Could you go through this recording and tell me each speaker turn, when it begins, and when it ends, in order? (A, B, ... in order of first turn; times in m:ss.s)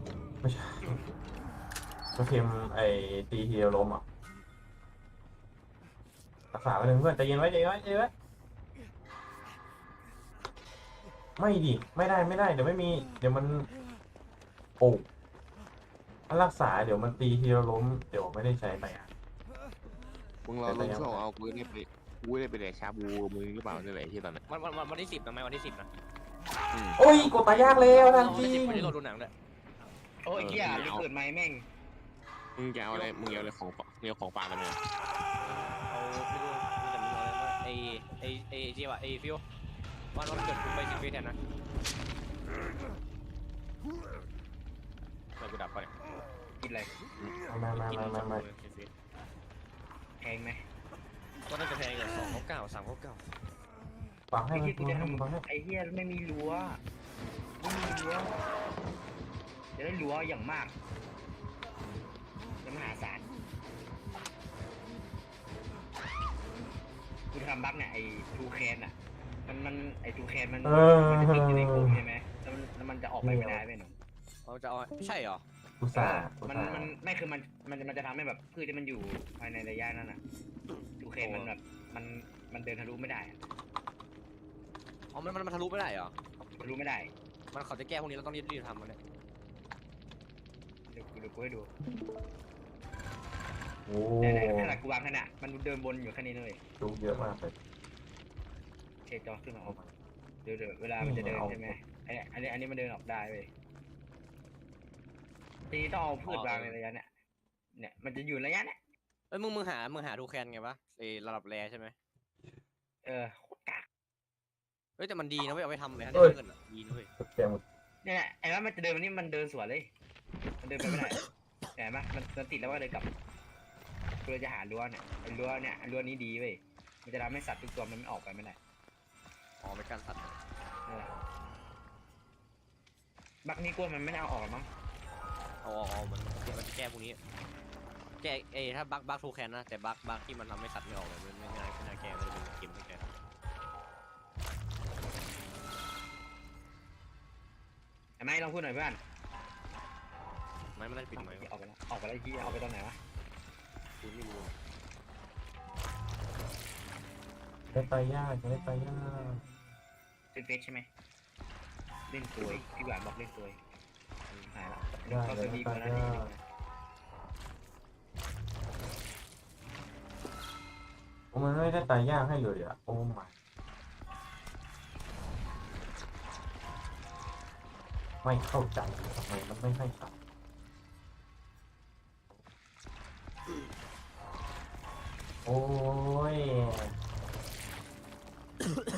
0:00.4-0:01.0 A
0:02.1-0:04.0 A
0:06.5-0:08.1 A
0:11.4-0:13.7 A
0:14.8-0:15.1 A
0:16.3-0:19.1 A
0:20.4-0:24.4 B
0:20.6-0:21.2 A
0:24.5-0:25.9 C
0:26.7-0:27.0 B
0:27.0-0:29.0 A
0:27.1-0:29.3 C
0:30.2-0:31.6 D
0:30.4-0:31.1 B
0:30.6-0:31.0 C
0:32.6-0:34.8 B
0:32.9-0:33.5 C
0:35.6-0:39.4 C
0:40.1-0:41.4 C
0:45.4-0:46.0 C
0:46.6-0:46.9 D
0:47.2-0:48.4 A
0:47.7-0:48.9 C
0:50.2-0:50.6 D
0:51.5-0:53.3 C
0:54.3-0:55.4 A
0:54.5-0:56.8 D
0:57.6-0:58.5 D
0:59.8-1:00.7 D
1:02.6-1:03.2 D
1:07.3-1:09.0 D
1:09.5-1:14.0 D
1:10.6-1:12.0 A
1:13.2-1:13.6 A
1:14.4-1:15.4 C
1:15.8-1:16.9 A
1:15.9-1:20.2 D
1:21.0-1:23.4 D
1:21.2-1:21.5 C
1:25.1-1:26.2 C
1:26.6-1:27.1 D
1:27.5-1:29.0 C
1:30.9-1:31.7 D
1:33.9-1:34.8 A
1:34.2-1:36.6 D
1:36.8-1:37.6 A
1:39.1-1:39.8 D
1:39.7-1:40.0 A
1:40.4-1:43.5 D
1:41.0-1:41.8 A
1:45.7-1:47.1 D
1:46.3-1:46.8 C
1:47.8-1:48.8 D
1:49.3-1:52.0 C
1:53.0-1:53.9 D
1:55.0-1:57.1 C
1:57.2-1:57.6 A
1:58.0-1:59.9 D
2:00.6-2:01.2 D
2:01.8-2:03.1 D
2:04.2-2:08.6 D
2:09.6-2:10.4 C
2:10.9-2:11.1 D
2:13.4-2:14.7 D
2:15.6-2:17.2 C
2:18.2-2:23.1 C
2:28.2-2:29.0 D
2:30.8-2:31.5 C
2:31.2-2:33.0 D
2:34.0-2:34.6 C
2:37.7-2:39.5 A
2:40.3-2:40.9 D
2:42.1-2:43.6 D
2:44.5-2:46.4 D
2:44.8-2:46.3 A
2:51.3-2:53.3 A
2:58.2-3:00.1 A
3:05.4-3:07.0 A